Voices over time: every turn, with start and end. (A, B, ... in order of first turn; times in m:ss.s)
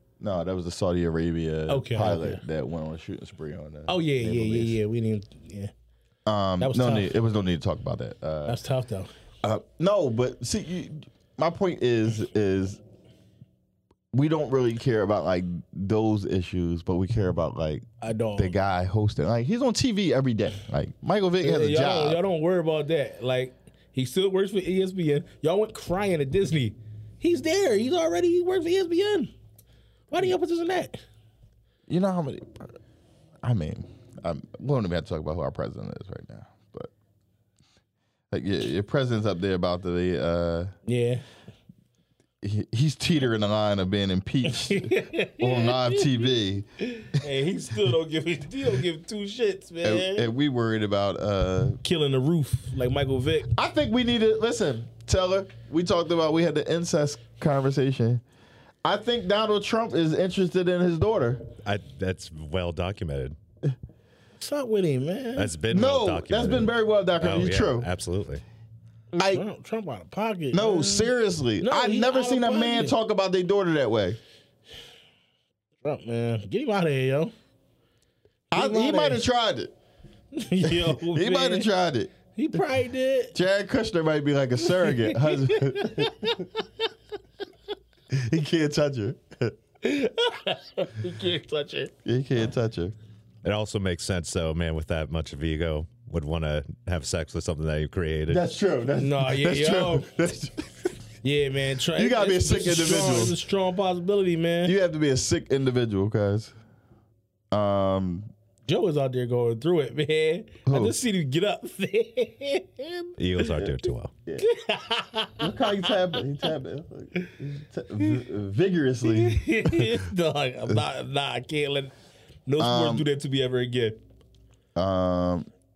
0:00.2-0:04.8 A
0:01.7-0:02.4 B
0:03.9-0:05.7 B
0:06.2-0:08.6 A
0:06.6-0:07.1 B
0:08.4-0:09.1 B
0:09.4-0:12.8 A
0:14.1-0:17.8 A
0:18.0-0:18.5 B
0:18.4-0:22.2 A
0:21.4-0:29.3 B
0:30.1-0:31.0 B
0:31.9-0:32.7 A
0:33.4-0:36.9 A
0:38.3-0:40.7 A
0:40.8-0:41.2 B
0:42.4-0:46.7 A
0:44.4-0:46.1 B
0:46.9-0:50.3 B
0:49.8-0:51.8 A
0:51.8-0:53.5 B
0:53.5-0:58.2 A
0:58.8-1:01.4 A
1:01.6-1:03.4 C
1:04.4-1:05.5 B
1:05.4-1:08.4 C
1:05.7-1:07.9 A
1:09.2-1:09.4 A
1:09.2-1:13.0 B
1:10.5-1:14.2 A
1:15.8-1:17.3 B
1:18.5-1:19.2 B
1:18.5-1:19.7 A
1:20.3-1:21.7 B
1:20.6-1:22.6 A
1:22.3-1:23.3 B
1:23.3-1:26.4 A
1:24.9-1:26.5 B
1:28.1-1:29.5 A
1:29.8-1:31.9 B
1:32.0-1:32.9 A
1:33.4-1:38.4 C
1:38.3-1:40.9 A
1:39.0-1:40.1 B
1:41.2-1:44.7 B
1:41.9-1:43.3 A
1:44.6-1:46.5 A
1:47.5-1:48.3 A
1:48.6-1:53.1 B
1:50.6-1:51.0 A
1:53.2-1:54.1 C
1:54.4-1:56.2 B
1:55.4-1:59.9 A
1:59.0-2:01.9 B
2:02.4-2:04.0 B
2:02.6-2:03.0 A
2:04.7-2:05.5 A